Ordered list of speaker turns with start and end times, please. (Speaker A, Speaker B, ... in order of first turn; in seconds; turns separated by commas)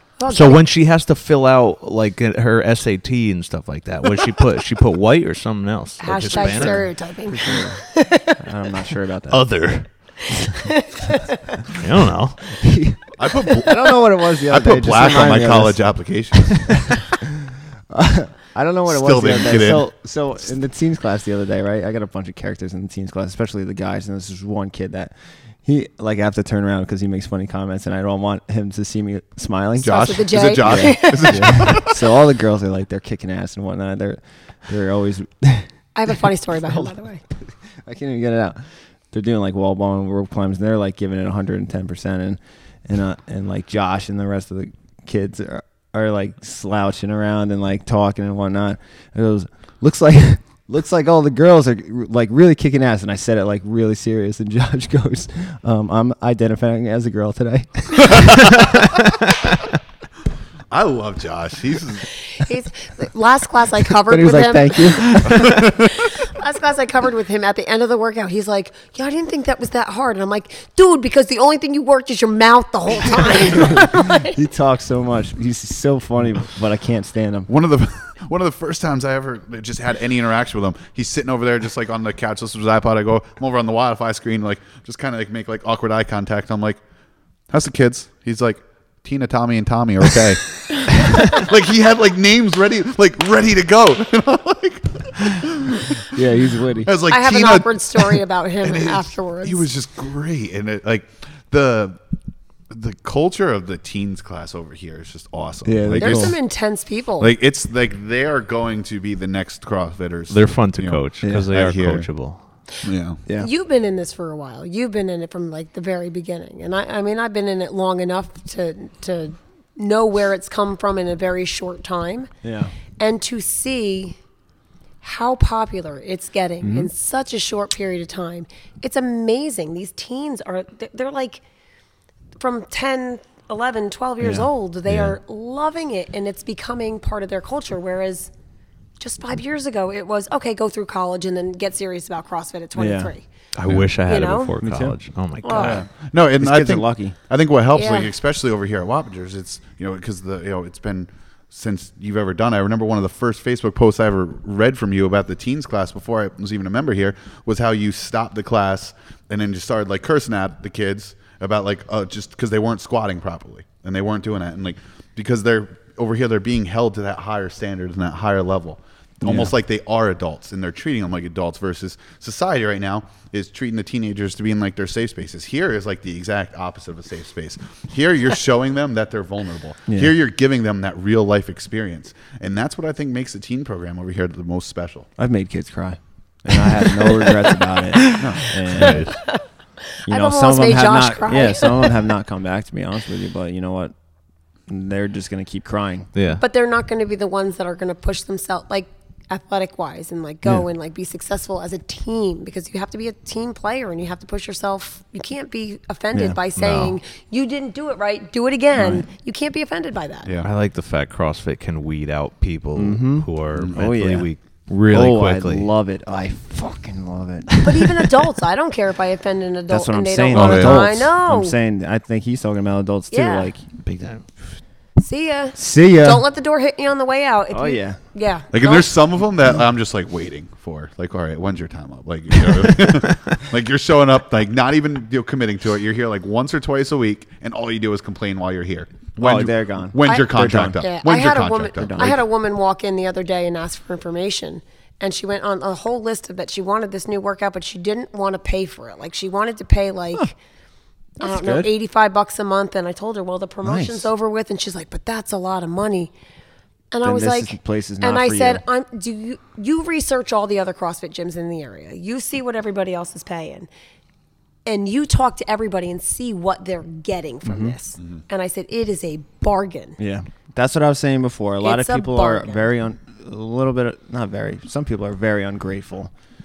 Speaker A: 0.2-0.6, Speaker B: 0.3-6.8, Speaker A: 6.0-8.4, Speaker C: 6.3-7.8, Speaker C: 8.4-9.4, Speaker B: 9.3-10.6, Speaker A: 10.6-11.6, Speaker B: 11.7-12.6, Speaker C: 12.5-15.8, Speaker D: 13.2-17.0, Speaker C: 16.8-35.7, Speaker D: 18.9-19.9, Speaker D: 29.8-32.0, Speaker A: 29.8-31.7, Speaker A: 35.9-37.2, Speaker C: 37.8-38.6, Speaker C: 39.1-58.6, Speaker D: 58.1-58.5, Speaker D: 60.7-62.1, Speaker A: 62.2-74.3, Speaker C: 64.0-65.6, Speaker D: 65.2-65.7, Speaker C: 73.5-77.5, Speaker D: 77.5-86.8, Speaker D: 87.5-96.1, Speaker C: 96.1-96.9, Speaker D: 96.8-102.0, Speaker A: 97.1-99.7, Speaker D: 102.7-106.3, Speaker C: 105.6-106.3, Speaker A: 106.0-107.3, Speaker D: 107.2-112.1, Speaker B: 110.3-112.4, Speaker C: 111.2-111.5, Speaker D: 112.8-113.2, Speaker A: 113.3-122.3, Speaker C: 122.4-122.7, Speaker A: 123.0-124.2, Speaker A: 125.0-131.4, Speaker C: 126.6-126.9, Speaker A: 132.4-138.3, Speaker C: 134.2-134.5, Speaker B: 134.9-135.2, Speaker A: 139.0-143.2, Speaker C: 142.7-143.1, Speaker B: 143.5-145.8, Speaker A: 144.1-144.5, Speaker C: 144.6-145.0, Speaker A: 145.4-145.8, Speaker D: 145.5-185.1, Speaker C: 146.4-147.2, Speaker A: 147.7-148.1, Speaker C: 169.2-169.5, Speaker C: 179.9-180.1, Speaker C: 185.2-189.1, Speaker B: 188.0-189.1, Speaker D: 188.2-188.5, Speaker A: 190.0-192.1, Speaker C: 190.1-193.9, Speaker C: 194.7-196.1, Speaker B: 196.1-196.4, Speaker A: 196.4-210.3, Speaker C: 206.1-206.4, Speaker B: 206.6-206.9, Speaker D: 210.2-210.5, Speaker B: 210.4-215.7, Speaker C: 212.7-214.3, Speaker D: 213.6-213.8, Speaker C: 214.9-217.6, Speaker A: 217.6-221.6, Speaker C: 219.7-223.7, Speaker D: 220.3-220.9, Speaker A: 223.1-223.5, Speaker B: 223.8-224.2, Speaker A: 225.0-228.9, Speaker C: 225.6-226.2, Speaker C: 227.5-228.0, Speaker D: 228.5-242.2, Speaker B: 232.7-233.0, Speaker C: 239.2-240.8, Speaker A: 240.0-250.3, Speaker C: 241.8-242.2, Speaker C: 251.2-251.7, Speaker A: 251.2-256.1, Speaker C: 253.6-254.1, Speaker A: 256.9-263.7, Speaker C: 257.0-258.6, Speaker A: 264.6-270.0, Speaker C: 267.4-267.8, Speaker C: 270.0-276.1, Speaker A: 271.6-272.7